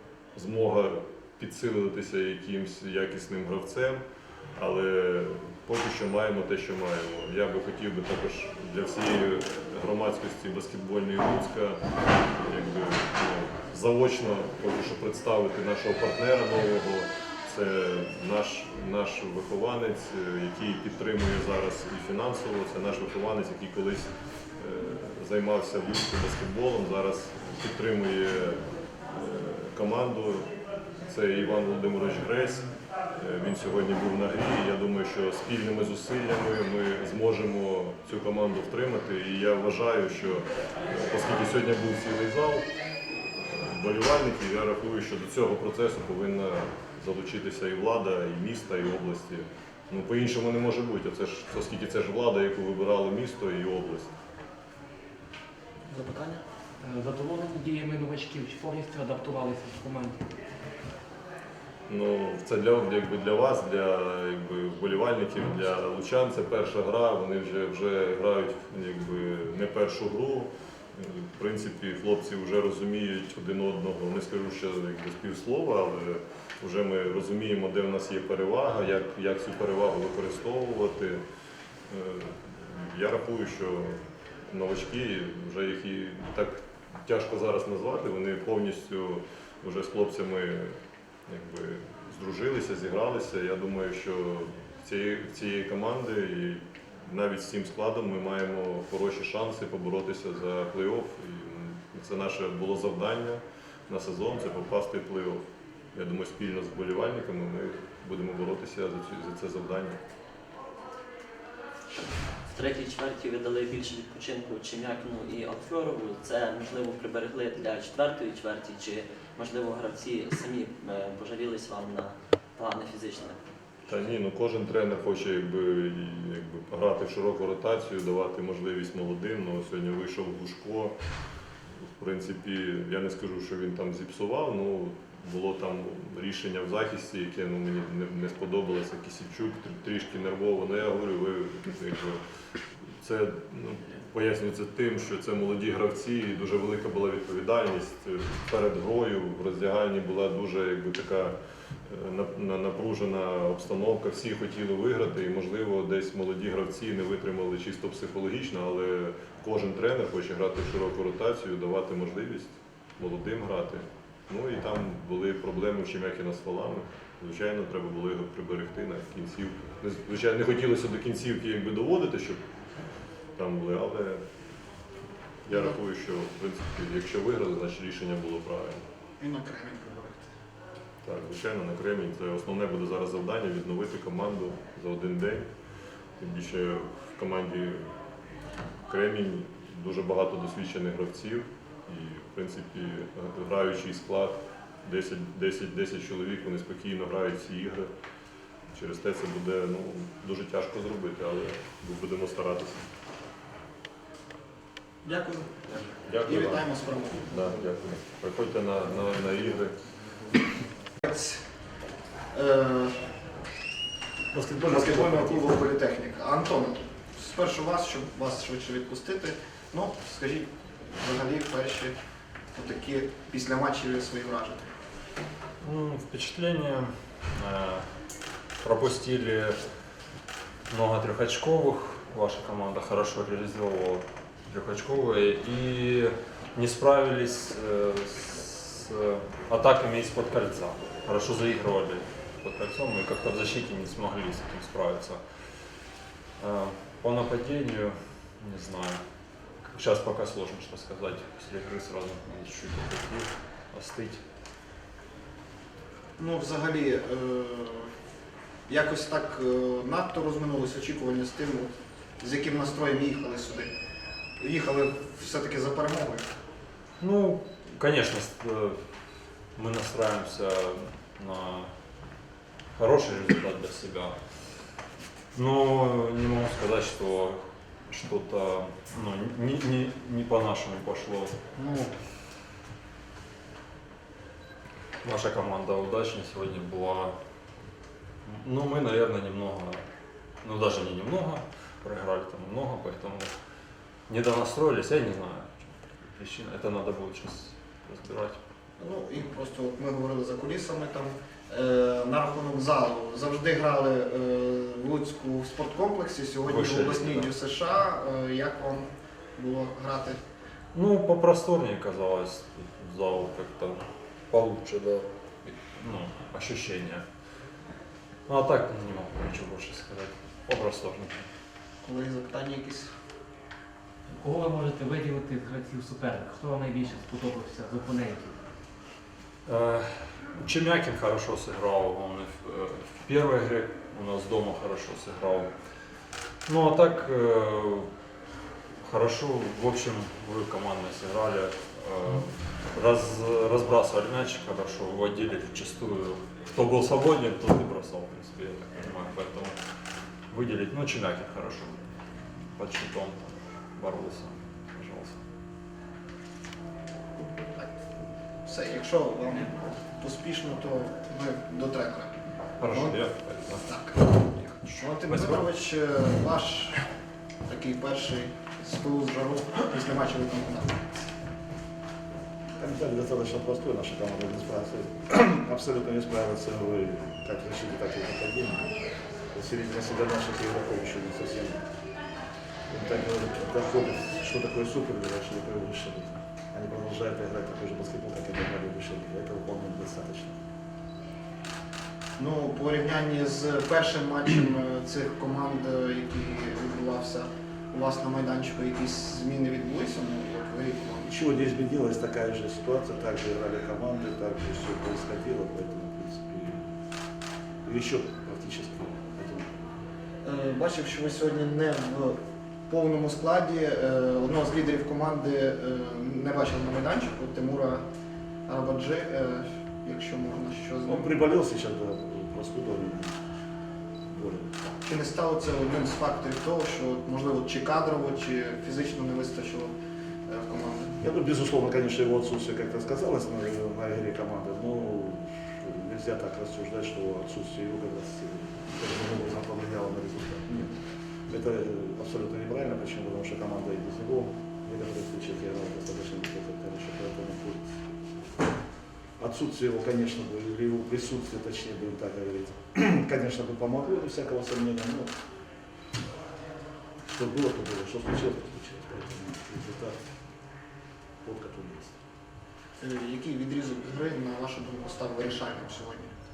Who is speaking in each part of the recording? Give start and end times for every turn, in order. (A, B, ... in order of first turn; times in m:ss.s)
0:00.3-0:04.0 A
0:04.5-0:11.8 A
0:12.3-0:30.5 A
0:31.0-0:42.7 A
0:43.4-0:54.1 A
0:55.9-0:56.4 B
0:56.8-1:00.2 C
1:01.9-1:21.2 A
1:21.9-1:45.4 A
1:45.9-1:50.0 A
1:52.5-2:03.4 D
2:03.9-2:10.9 A
2:12.0-2:22.2 A
2:23.0-2:31.3 A
2:31.9-2:52.4 A
2:53.4-2:54.2 A
2:55.4-2:58.8 A
2:55.5-2:55.8 B
2:59.2-3:00.3 B
3:01.0-3:05.5 A
3:06.2-3:07.9 A
3:08.9-3:17.9 A
3:18.7-3:22.8 A
3:25.0-3:27.3 B
3:26.0-3:26.7 A
3:27.2-3:29.8 A
3:31.0-3:31.4 B
3:32.3-3:33.0 B
3:34.3-3:35.6 E
3:34.6-3:41.9 B
3:42.5-3:44.7 B
3:45.6-3:47.8 F
3:48.6-3:49.6 F
3:50.7-4:09.0 F
4:09.7-4:14.2 F
4:16.2-4:17.9 B
4:18.7-4:23.7 B
4:24.4-4:26.2 B
4:27.0-4:28.8 F
4:29.6-4:31.7 F
4:32.7-4:34.7 F
4:35.3-4:41.9 F
4:45.0-4:47.1 F
4:48.2-4:49.8 F
4:50.4-4:53.3 F
4:54.1-4:58.4 F
4:58.8-5:10.2 B
5:06.4-5:07.3 F
5:10.7-5:17.0 F
5:18.3-5:21.3 F
5:21.8-5:22.9 B
5:24.1-5:28.4 C
5:29.4-5:35.5 F
5:36.5-5:37.9 F
5:38.8-5:49.6 F
5:50.3-5:51.9 F
5:52.5-5:55.2 F
5:58.4-6:02.2 B
6:02.6-6:03.7 F
6:02.7-6:03.0 B
6:03.5-6:06.8 B
6:05.0-6:05.5 F
6:07.5-6:10.9 B
6:12.6-6:18.8 E
6:19.3-6:21.6 E
6:22.7-6:30.4 E
6:32.2-6:41.1 B
6:41.0-6:46.7 E
6:47.6-6:49.7 E
6:50.2-6:57.8 B
6:58.4-7:01.1 B
7:00.8-7:03.2 E
7:04.1-7:04.5 E
7:04.8-7:09.7 B
7:10.3-7:11.0 B
7:11.0-7:27.8 E
7:29.2-7:35.2 E
7:37.1-7:40.1 E
7:41.2-7:42.0 E
7:42.8-7:46.1 B